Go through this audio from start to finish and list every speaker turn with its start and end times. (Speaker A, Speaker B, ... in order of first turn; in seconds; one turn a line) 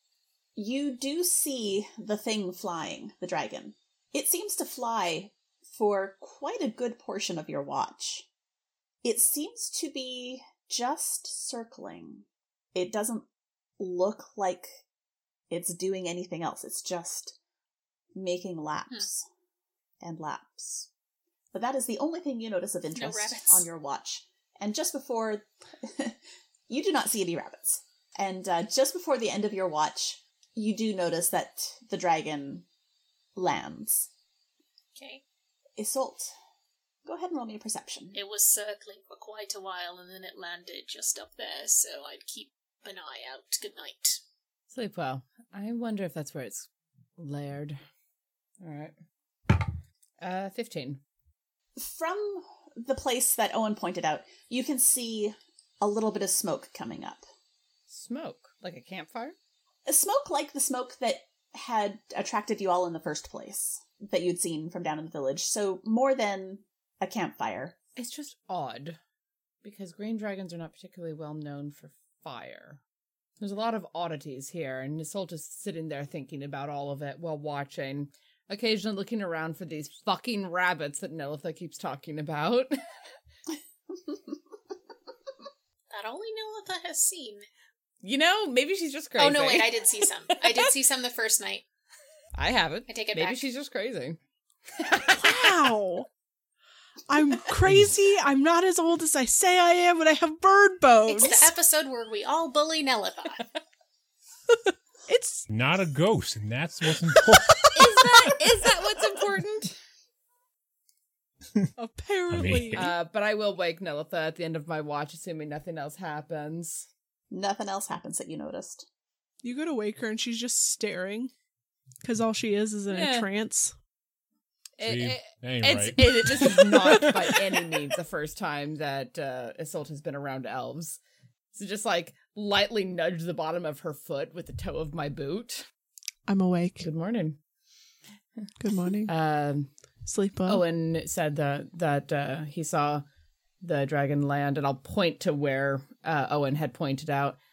Speaker A: 0.6-8.3
Speaker A: 9.0-13.2
Speaker A: 13.8-14.8
Speaker A: 15.5-17.4
Speaker A: 18.1-19.2
Speaker A: 20.0-20.9
Speaker A: 21.5-26.2
Speaker B: 22.9-23.6
Speaker A: 26.7-32.6
Speaker A: 33.4-34.1
Speaker B: 35.0-35.2
Speaker A: 35.8-36.3
Speaker A: 37.0-38.2
Speaker B: 38.1-44.2
Speaker C: 44.7-47.8
Speaker C: 48.6-48.9
Speaker C: 50.2-51.0
Speaker A: 51.8-57.2
Speaker C: 57.9-59.3
Speaker A: 59.9-67.8
Speaker C: 68.0-69.0
Speaker C: 69.6-72.8
Speaker C: 73.4-82.7
Speaker B: 85.9-87.5
Speaker C: 88.0-90.7
Speaker B: 89.2-91.6
Speaker C: 92.3-94.2
Speaker B: 92.9-93.4
Speaker C: 94.7-95.7
Speaker D: 95.2-96.1
Speaker D: 97.1-101.5
Speaker E: 97.6-98.0
Speaker B: 101.1-103.5
Speaker D: 104.5-105.4
Speaker E: 105.5-107.7
Speaker C: 107.7-109.8
Speaker D: 111.8-112.9
Speaker E: 112.3-112.9
Speaker C: 112.7-116.9
Speaker A: 117.3-118.8
Speaker D: 119.4-121.3
Speaker D: 122.0-123.7
Speaker C: 122.9-123.3
Speaker C: 124.8-131.0
Speaker E: 124.8-126.2
Speaker D: 126.5-127.6
Speaker C: 131.5-135.7
Speaker D: 136.3-136.9
Speaker C: 136.8-137.4
Speaker D: 138.6-139.1
Speaker C: 139.0-139.7
Speaker D: 140.1-140.6
Speaker C: 140.4-143.0
Speaker C: 143.6-147.4